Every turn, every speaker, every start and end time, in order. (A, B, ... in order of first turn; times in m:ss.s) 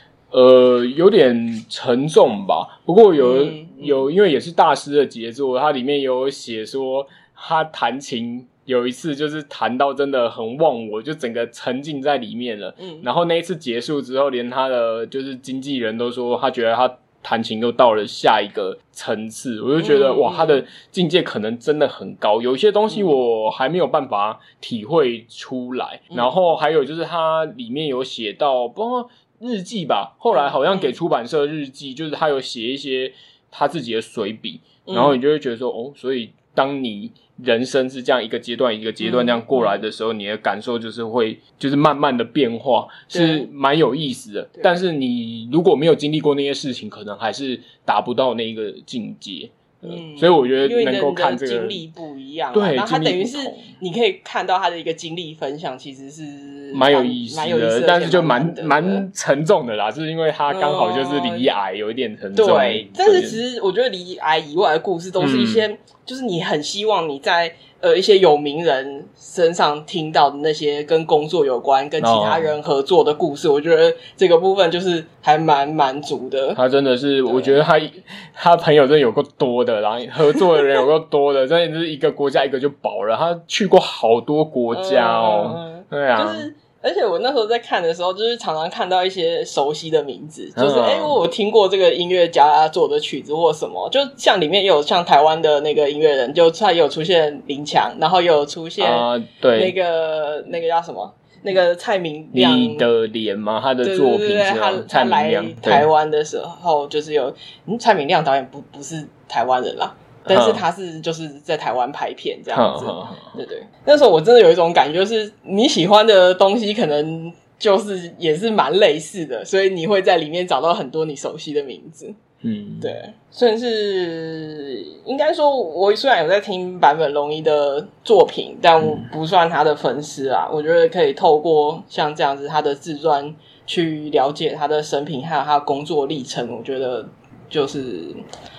0:00.3-0:51.8 A
0:03.2-0:04.1 B
0:12.8-0:13.0 B
0:19.8-0:20.6 B
0:30.3-0:30.9 B
0:34.8-0:35.2 B
0:39.0-0:39.8 B
0:43.1-0:43.5 B
0:49.8-0:59.0 B
0:52.5-0:53.6 A
0:56.7-1:03.4 A
1:00.5-1:01.5 B
1:02.3-1:16.6 B
1:05.2-1:05.6 A
1:12.0-1:12.6 A
1:16.6-1:26.5 A
1:17.3-1:17.5 B
1:24.7-1:42.9 B
1:30.6-1:31.2 A
1:38.8-1:39.7 A
1:42.3-1:45.9 A
1:43.8-2:02.1 B
1:50.3-1:50.6 A
1:52.5-1:53.4 A
2:02.4-2:02.9 A
2:02.8-2:18.2 B